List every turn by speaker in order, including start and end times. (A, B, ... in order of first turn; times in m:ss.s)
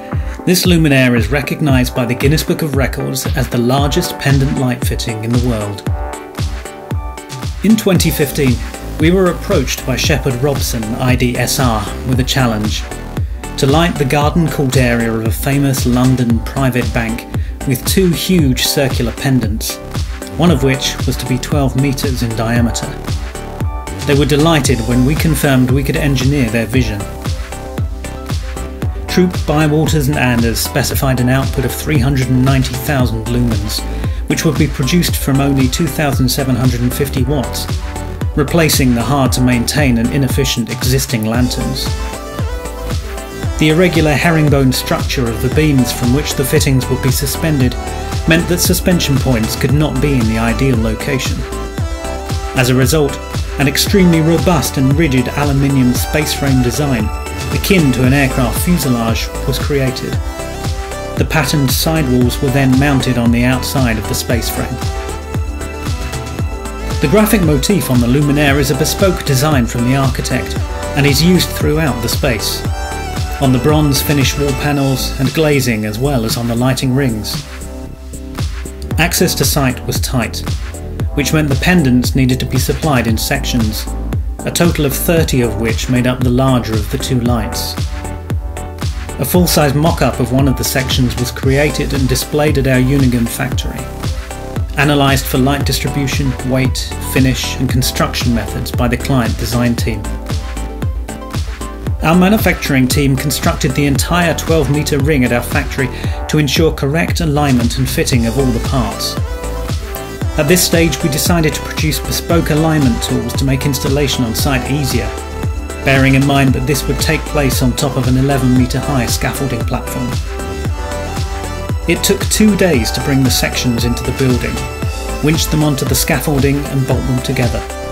0:00.4-0:05.8 A
0:07.6-0:12.8 A
0:13.5-0:19.8 A
0:20.4-0:23.0 A
0:24.0-0:27.1 A
0:29.1-0:37.7 A
0:38.3-0:41.9 A
0:43.6-0:51.5 A
0:52.6-1:00.2 A
1:01.2-1:04.8 A
1:07.0-1:12.7 A
1:13.4-1:17.4 A
1:19.0-1:20.5 A
1:21.1-1:23.9 A
1:24.4-1:27.8 A
1:29.2-1:33.9 A
1:34.8-1:40.1 A
1:42.0-1:49.2 A
1:50.4-1:55.1 A
1:55.8-2:00.2 A
2:01.8-2:04.6 A
2:05.2-2:07.7 A